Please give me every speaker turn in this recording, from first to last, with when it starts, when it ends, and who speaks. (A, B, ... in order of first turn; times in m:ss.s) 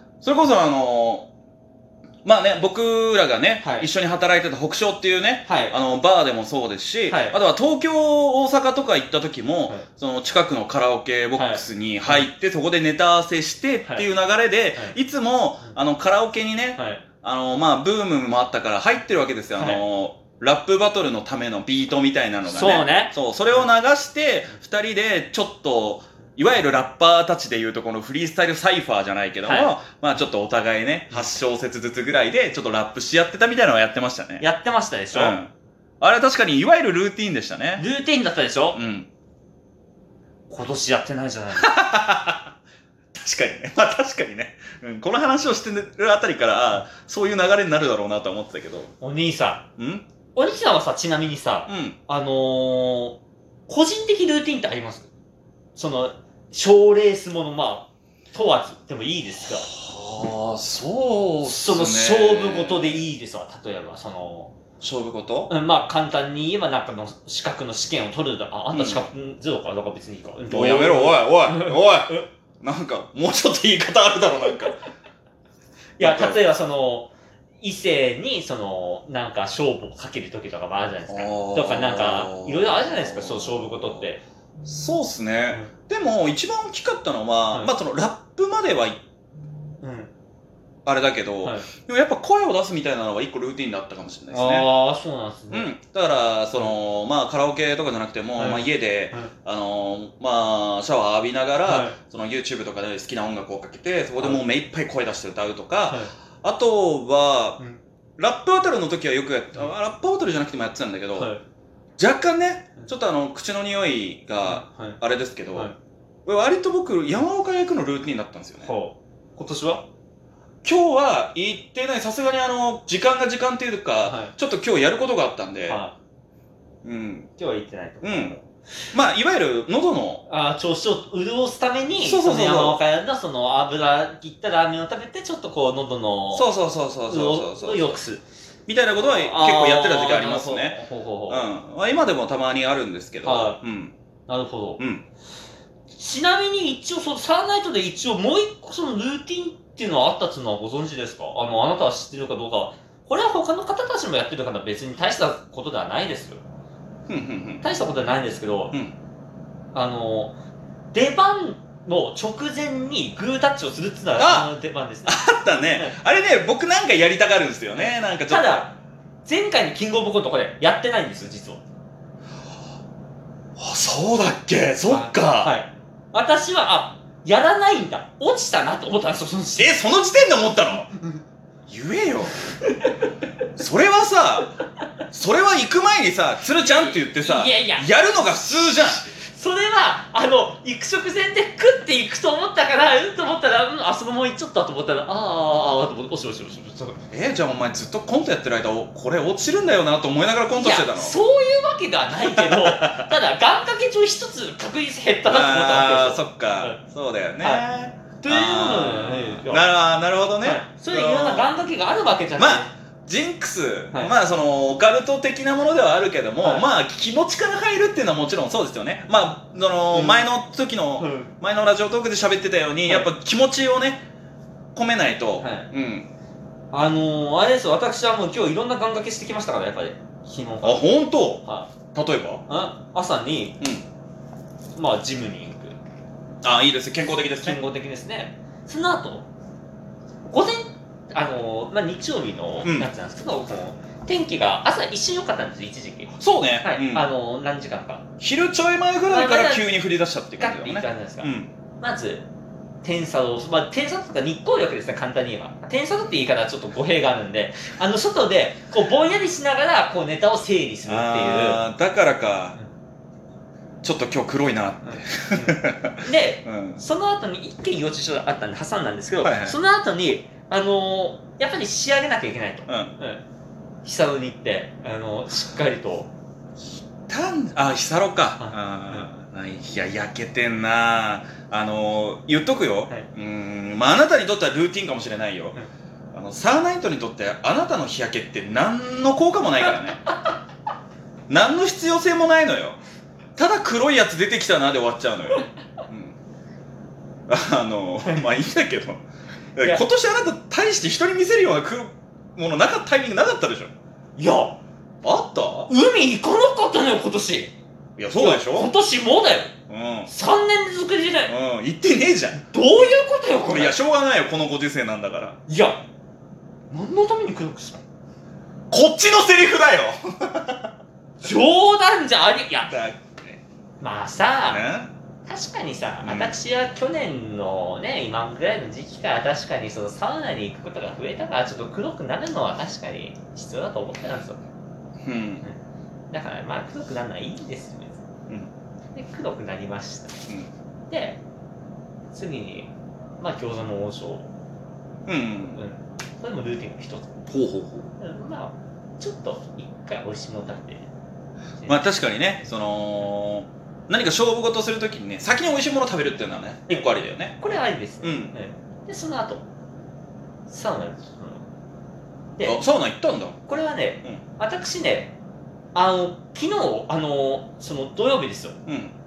0:00.2-0:01.3 A
0:02.2-0:34.4 A
0:03.6-0:03.9 B
0:05.4-0:05.8 B
0:07.1-0:07.4 B
0:11.4-0:12.3 B
0:16.8-0:17.0 B
0:19.6-0:19.8 B
0:22.4-0:23.7 B
0:29.4-0:29.7 B
0:34.4-0:35.4 B
0:35.1-0:37.8 A
0:37.8-0:38.8 B
0:38.8-0:39.1 A
0:40.5-0:41.7 B
0:41.6-0:42.5 A
0:43.1-0:48.9 A
0:49.0-0:49.7 B
0:49.8-0:50.0 A
0:50.4-0:55.1 B
0:51.7-0:52.0 A
0:55.8-0:59.7 B
0:59.5-1:03.0 A
1:01.4-1:04.5 B
1:04.8-1:05.5 A
1:05.5-1:12.3 B
1:08.7-1:09.1 A
1:10.5-1:14.8 A
1:16.0-1:24.2 B
1:16.0-1:16.4 A
1:21.1-1:24.0 A
1:24.6-1:29.0 A
1:29.8-1:30.1 B
1:30.8-1:34.7 A
1:31.4-1:31.7 B
1:34.3-1:35.7 B
1:35.5-1:47.6 A
1:38.4-1:39.3 B
1:41.7-1:42.0 B
1:45.9-1:46.1 B
1:48.2-1:51.3 A
1:51.2-1:51.4 B
1:52.0-1:55.7 A
1:54.4-1:55.0 B
1:56.2-1:58.7 A
1:58.6-1:59.8 B
2:00.6-2:05.8 A
2:04.0-2:04.3 B
2:05.7-2:06.0 B
2:06.8-2:07.3 A
2:07.4-2:08.5 B
2:08.0-2:08.4 A
2:08.9-2:10.2 A
2:10.2-2:16.5 B
2:12.0-2:12.8 A
2:16.3-2:18.0 A
2:17.1-2:18.2 B
2:18.7-2:23.9 A
2:19.0-2:21.5 B
2:23.2-2:23.6 B
2:24.3-2:24.8 B
2:24.8-2:25.0 A
2:25.9-2:36.4 B
2:37.1-2:37.6 A
2:37.6-2:38.7 B
2:39.7-2:40.3 B
2:40.9-2:46.0 B
2:44.2-2:44.5 A
2:45.0-2:48.7 A
2:47.7-2:51.6 B
2:53.6-2:55.6 A
2:54.9-2:59.8 B
2:59.6-3:00.9 A
3:01.7-3:02.5 A
3:02.7-3:03.1 B
3:03.6-3:04.5 A
3:05.1-3:09.0 A
3:06.5-3:17.0 B
3:17.1-3:21.2 A
3:20.6-3:26.8 B
3:22.3-3:23.0 A
3:25.2-3:31.5 A
3:27.4-3:27.6 B
3:28.2-3:29.7 B
3:30.4-3:32.7 B
3:32.4-3:44.0 A
3:36.4-3:36.7 B
3:39.9-3:40.2 B
3:41.0-3:41.3 B
3:44.7-3:46.1 A
3:45.4-3:45.7 B
3:46.7-3:50.9 B
3:50.6-3:52.4 A
3:51.4-3:51.7 B
3:52.5-3:53.6 B
3:53.6-3:53.8 A
3:54.8-3:55.8 B
3:56.4-3:57.6 A
3:57.4-3:59.3 B
4:00.3-4:08.0 B
4:02.6-4:02.9 A
4:06.2-4:07.1 A
4:08.2-4:11.5 A
4:09.1-4:09.7 B
4:10.4-4:12.3 B
4:12.8-4:21.6 B
4:20.9-4:22.6 A
4:23.8-4:26.8 A
4:24.8-4:33.2 B
4:29.2-4:29.6 A
4:32.7-4:32.9 A
4:33.8-4:36.1 B
4:37.1-4:45.6 A
4:38.4-4:39.1 B
4:46.1-4:50.0 A
4:51.3-4:52.8 A
4:53.4-4:56.2 A
4:57.3-4:59.0 A
4:59.6-5:03.7 A
5:04.2-5:04.6 B
5:05.0-5:05.7 A
5:05.7-5:07.5 B
5:08.0-5:08.7 A
5:08.1-5:09.5 B
5:09.7-5:10.1 A
5:10.1-5:11.3 B
5:11.3-5:12.4 A
5:12.5-5:13.8 B
5:13.5-5:15.4 A
5:15.5-5:15.8 B
5:16.7-5:17.8 B
5:18.7-5:20.7 A
5:21.2-5:22.7 B
5:22.7-5:23.4 A
5:23.8-5:24.6 B
5:24.4-5:24.9 A
5:25.3-5:34.4 B
5:26.0-5:26.4 A
5:35.0-5:35.4 A
5:36.1-5:38.0 B
5:38.9-5:40.2 B
5:40.9-5:41.2 B
5:42.1-5:44.3 B
5:45.0-5:45.6 A
5:45.4-5:47.2 B
5:47.3-5:47.9 A
5:48.0-5:50.9 B
5:51.6-5:57.4 A
5:56.7-5:59.4 B
5:58.0-5:58.3 A
6:00.5-6:01.4 B
6:02.4-6:03.4 A
6:03.5-6:05.1 B
6:05.7-6:08.6 B
6:08.7-6:08.9 A